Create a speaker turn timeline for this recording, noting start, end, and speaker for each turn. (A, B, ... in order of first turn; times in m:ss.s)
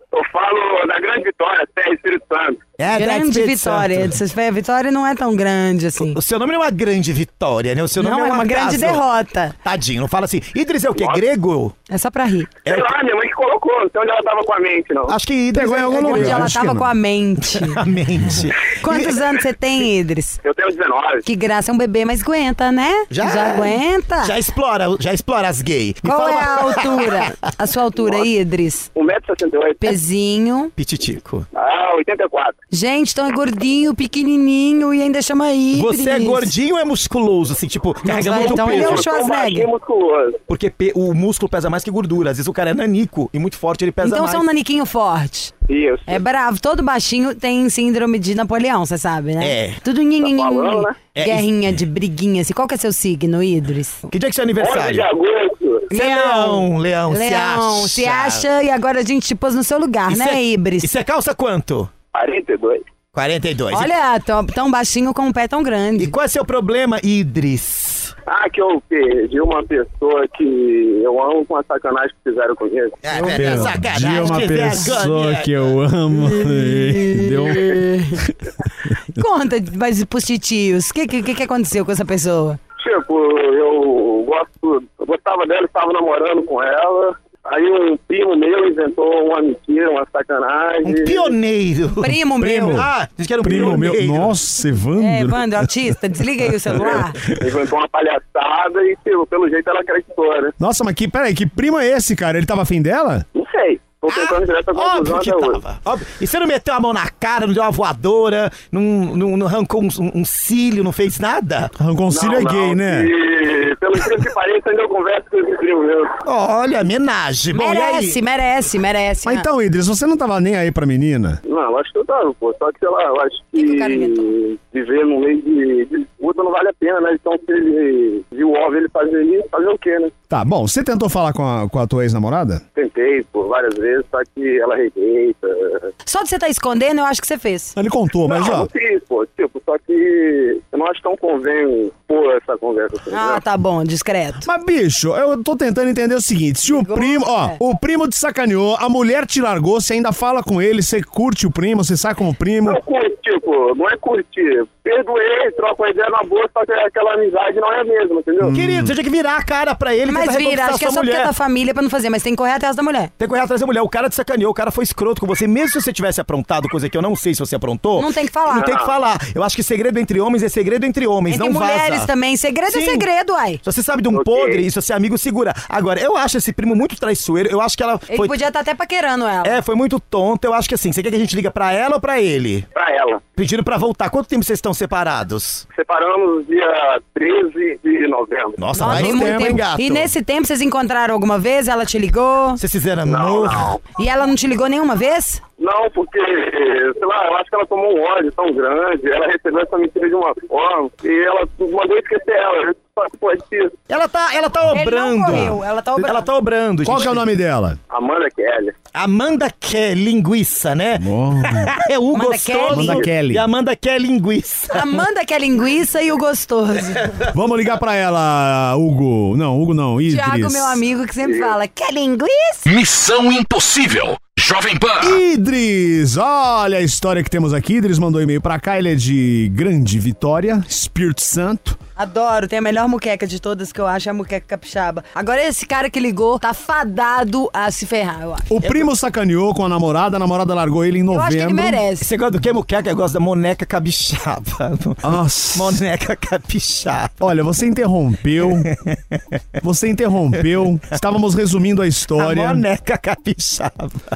0:00.1-0:02.6 A
0:02.8-0:04.2 B
0:02.9-0:06.2 C
0:06.0-0:09.0 B
0:08.0-0:09.6 C
0:09.6-0:11.8 B
0:11.0-0:11.2 A
0:11.9-0:12.5 C
0:12.7-0:15.2 A
0:15.1-0:16.7 B
0:15.5-0:16.9 D
0:16.0-0:17.8 C
0:17.6-0:19.2 B
0:18.6-0:20.4 C
0:20.4-0:21.2 A
0:21.2-0:24.3 C
0:23.1-0:27.3 B
0:26.0-0:28.9 C
0:28.9-0:30.0 A
0:29.8-0:30.7 C
0:30.8-0:31.5 B
0:31.5-0:32.6 A
0:32.7-0:36.5 C
0:35.7-0:39.1 B
0:38.1-0:39.7 C
0:38.2-0:40.4 A
0:40.5-0:44.4 B
0:44.0-0:45.5 C
0:45.7-0:46.2 A
0:46.1-0:54.0 C
0:49.4-0:49.8 B
0:50.2-0:51.0 A
0:51.1-0:51.5 B
0:54.1-0:55.1 B
0:54.6-0:55.9 A
0:55.9-1:00.9 C
0:55.9-0:58.4 B
1:00.1-1:01.9 B
1:02.1-1:02.8 A
1:03.1-1:03.9 B
1:03.7-1:06.2 C
1:06.0-1:08.1 B
1:08.3-1:13.0 A
1:13.0-1:15.5 B
1:13.1-1:14.1 C
1:13.3-1:18.4 D
1:17.8-1:18.2 C
1:19.2-1:22.6 C
1:22.8-1:31.4 A
1:30.8-1:34.4 B
1:32.0-1:32.8 C
1:32.4-1:32.9 D
1:33.4-1:37.3 D
1:35.0-1:37.2 C
1:36.8-1:40.6 A
1:40.6-1:43.2 D
1:43.3-1:45.6 A
1:44.1-1:51.7 B
1:51.8-1:53.1 D
1:52.1-1:56.2 A
1:56.3-1:58.2 B
1:57.5-1:59.5 C
1:59.3-2:01.4 D
2:01.4-2:10.1 A
2:03.6-2:04.3 C
2:10.3-2:12.6 D
2:12.8-2:15.9 A
2:16.1-2:17.8 C
2:17.8-2:18.7 D
2:18.3-2:23.4 A
2:23.1-2:24.5 C
2:24.4-2:32.8 D
2:26.6-2:27.6 C
2:32.6-2:38.6 A
2:38.4-2:39.0 D
2:38.5-2:41.3 B
2:40.1-2:43.1 C
2:43.2-2:52.1 B
2:48.0-2:48.8 C
2:48.6-2:48.9 A
2:51.3-2:53.6 C
2:52.7-2:53.1 B
2:53.6-2:58.4 B
2:54.1-2:54.6 A
2:58.1-2:59.6 C
2:59.4-3:02.7 B
3:02.7-3:03.2 A
3:03.4-3:05.6 B
3:05.7-3:08.7 A
3:08.6-3:10.1 B
3:08.8-3:12.6 C
3:08.8-3:09.6 D
3:12.6-3:13.7 B
3:13.1-3:13.8 A
3:14.0-3:15.4 C
3:15.6-3:23.8 A
3:23.9-3:27.2 B
3:24.7-3:26.3 C
3:26.8-3:27.8 D
3:27.9-3:28.7 A
3:29.0-3:34.8 B
3:31.0-3:31.7 D
3:32.1-3:33.1 C
3:32.7-3:33.5 D
3:34.7-3:37.1 C
3:37.3-3:40.8 D
3:40.1-3:42.7 C
3:41.2-3:41.5 A
3:42.7-3:45.2 E
3:45.0-3:51.8 D
3:52.0-3:58.5 C
3:58.5-4:01.8 D
4:01.1-4:02.1 C
4:02.0-4:07.2 B
4:05.0-4:05.8 D
4:07.2-4:08.7 D
4:08.4-4:09.2 B
4:09.6-4:12.6 D
4:12.2-4:14.0 B